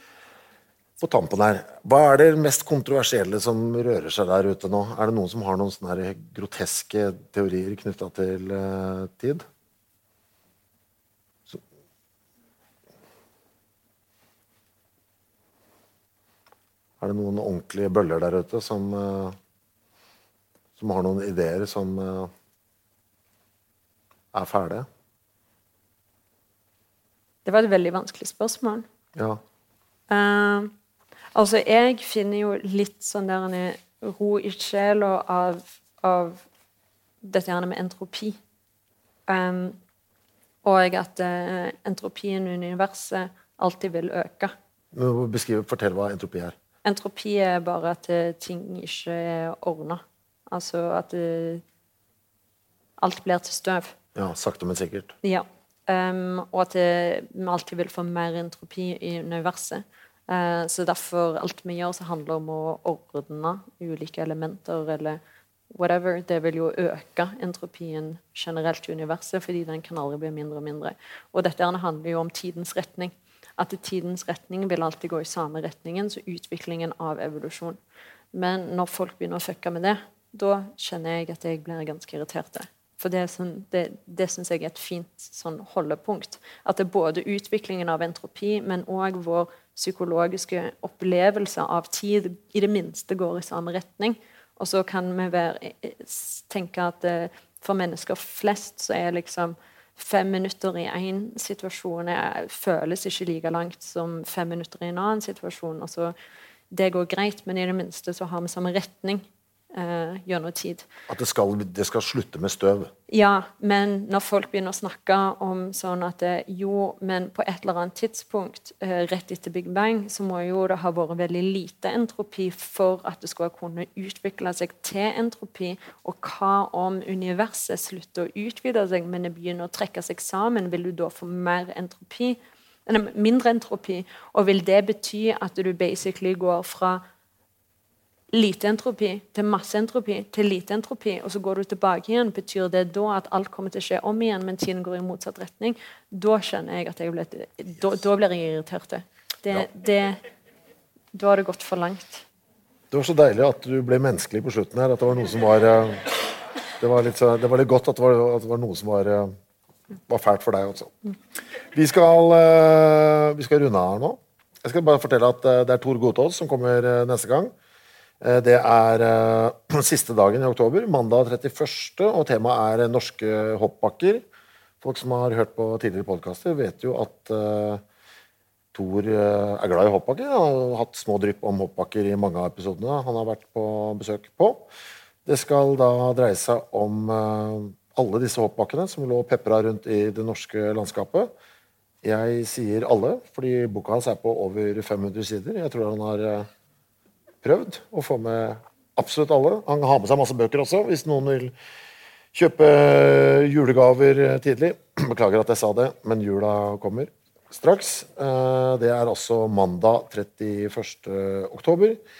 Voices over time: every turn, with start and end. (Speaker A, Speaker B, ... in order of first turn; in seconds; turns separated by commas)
Speaker A: 1.0-9.4, Speaker A: 17.0-19.4, Speaker A: 20.8-22.3, Speaker A: 24.3-24.9, Speaker B: 27.4-28.8, Speaker A: 29.1-29.4, Speaker B: 30.1-30.7, Speaker B: 31.3-36.4, Speaker B: 37.2-38.4, Speaker B: 39.3-39.8, Speaker B: 40.6-44.5, Speaker A: 44.9-46.5, Speaker B: 46.8-51.6, Speaker B: 53.0-53.9, Speaker A: 54.1-55.1, Speaker B: 55.2-65.2, Speaker B: 65.7-77.8, Speaker B: 78.3-106.1, Speaker B: 106.7-110.8, Speaker A: 111.1-112.9, Speaker B: 113.1-137.0, Speaker B: 138.3-150.2, Speaker B: 151.1-152.2, Speaker A: 152.9-156.3, Speaker A: 156.8-159.3, Speaker A: 160.1-160.9, Speaker A: 161.7-167.5, Speaker A: 168.2-174.2, Speaker A: 174.8-177.8, Speaker A: 178.7-184.7, Speaker A: 185.2-191.3, Speaker A: 192.0-196.5, Speaker A: 197.4-201.5, Speaker A: 202.3-212.0